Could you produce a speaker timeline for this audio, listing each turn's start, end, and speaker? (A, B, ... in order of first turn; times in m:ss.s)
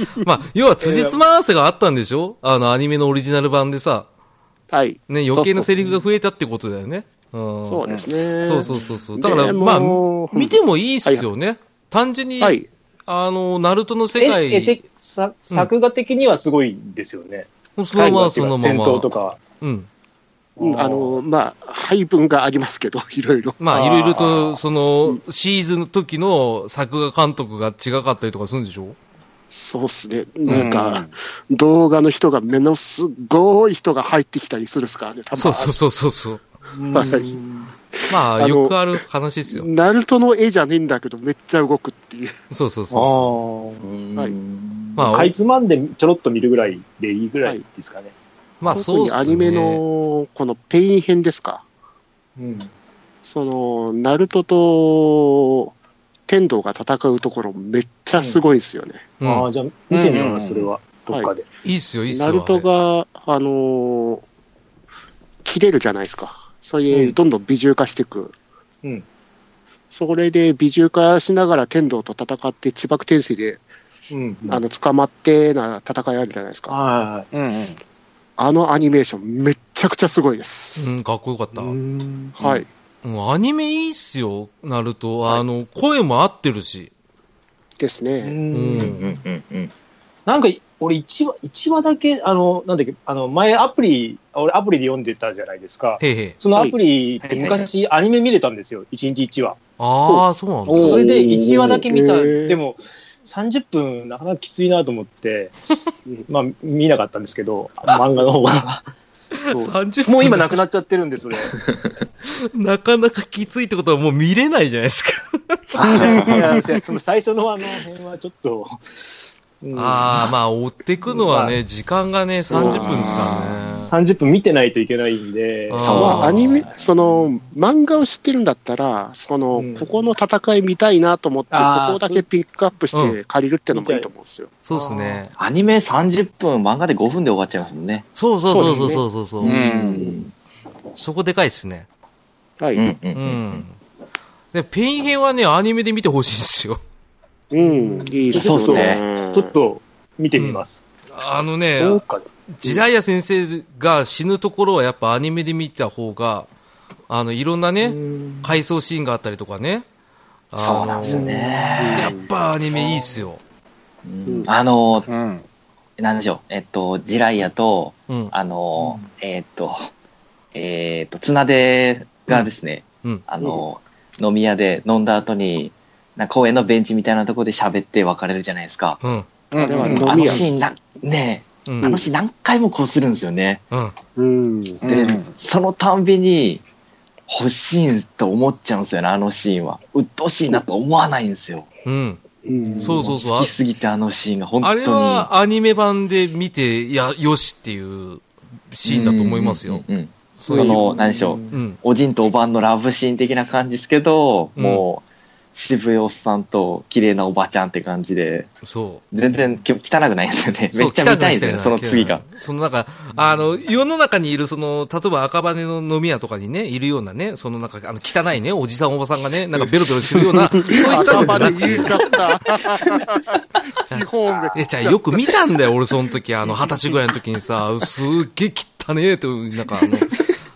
0:00.2-0:04.1 A
0:00.8-0:01.2 B
0:04.7-0:05.0 C
0:05.1-0:07.8 A
0:05.4-0:05.9 D
0:07.6-0:11.3 C
0:08.4-0:14.8 A
0:12.4-0:12.7 C
0:14.2-0:19.4 B
0:17.8-0:19.1 A
0:19.6-0:19.9 A
0:20.6-0:21.2 B
0:20.6-0:25.2 C
0:23.6-0:29.0 A
0:23.7-0:24.3 B
0:29.5-0:35.7 C
0:30.5-0:31.1 D
0:35.4-0:36.4 A
0:36.8-0:37.7 B
0:36.9-0:37.3 C
0:37.9-0:38.8 C
0:38.1-0:39.7 A
0:39.5-0:42.3 C
0:42.5-0:43.3 A
0:42.9-0:43.8 B
0:43.8-0:45.1 E
0:45.0-0:45.4 A
0:45.1-0:48.1 B
0:48.6-0:49.8 A
0:48.7-0:51.6 C
0:52.4-0:52.7 B
0:53.2-0:55.7 C
0:56.3-0:59.0 C
0:59.2-0:59.5 A
0:59.2-1:01.4 B
0:59.9-1:00.7 D
1:01.6-1:02.7 A
1:02.1-1:04.2 C
1:05.4-1:08.3 C
1:06.9-1:07.2 B
1:09.9-1:13.6 C
1:14.1-1:14.6 B
1:14.5-1:16.8 C
1:16.7-1:17.3 B
1:17.3-1:17.8 D
1:18.4-1:20.9 C
1:20.8-1:21.8 A
1:21.5-1:22.6 B
1:22.4-1:22.7 C
1:23.0-1:26.9 A
1:27.8-1:28.4 C
1:28.2-1:29.2 B
1:28.5-1:29.1 A
1:28.8-1:29.7 E
1:30.3-1:39.6 B
1:36.0-1:36.4 A
1:37.2-1:37.7 E
1:39.8-1:41.0 A
1:40.7-1:41.0 D
1:40.7-1:45.5 B
1:40.8-1:42.6 C
1:46.3-1:48.9 B
1:49.4-1:50.6 A
1:49.5-1:51.6 B
1:52.3-1:55.6 A
1:55.7-1:56.4 E
1:55.8-2:00.3 B
1:55.8-1:56.6 C
1:56.0-1:56.8 D
1:59.7-2:03.9 A
2:01.1-2:01.6 B
2:02.5-2:06.2 B
2:02.5-2:03.5 C
2:02.6-2:03.8 E
2:05.7-2:06.6 A
2:05.8-2:07.0 E
2:05.9-2:14.5 C
2:09.5-2:09.9 B
2:11.5-2:12.2 B
2:13.7-2:14.1 B
2:14.6-2:15.3 A
2:14.7-2:15.2 B
2:15.4-2:18.0 E
2:18.2-2:19.6 A
2:18.5-2:19.0 C
2:19.4-2:20.2 B
2:19.4-2:20.2 D
2:19.5-2:20.3 E
2:21.0-2:21.9 A
2:22.8-2:23.6 E
2:23.2-2:23.7 A
2:24.5-2:26.8 A
2:27.5-2:29.5 C
2:27.6-2:30.8 B
2:28.3-2:29.0 E
2:30.4-2:30.6 A
2:31.2-2:36.5 A
2:31.8-2:32.8 B
2:37.1-2:39.8 A
2:37.8-2:38.5 B
2:40.5-2:41.3 A
2:40.6-2:42.2 E
2:41.0-2:42.0 B
2:41.8-2:42.2 C
2:42.0-2:43.4 A
2:44.0-2:45.1 E
2:45.1-2:45.4 D
2:46.0-2:49.9 E
2:50.5-2:59.0 E
2:59.0-2:59.3 A
2:59.5-3:00.1 D
2:59.6-3:00.5 C
2:59.7-3:00.4 B
2:59.9-3:03.6 E
3:01.7-3:02.0 A
3:04.2-3:04.8 C
3:04.8-3:05.3 D
3:04.8-3:06.6 E
3:07.3-3:11.7 E
3:11.8-3:12.2 A
3:12.4-3:13.1 C
3:12.7-3:13.1 B
3:12.8-3:15.3 E
3:12.8-3:13.5 A
3:14.6-3:19.8 A
3:18.8-3:25.0 E
3:20.4-3:20.8 A
3:20.5-3:21.6 B
3:21.5-3:21.8 A
3:24.6-3:24.8 A
3:25.5-3:28.5 E
3:28.6-3:29.0 A
3:29.1-3:32.2 E
3:30.7-3:42.1 A
3:40.6-3:45.0 C
3:41.0-3:41.3 E
3:44.6-3:50.3 A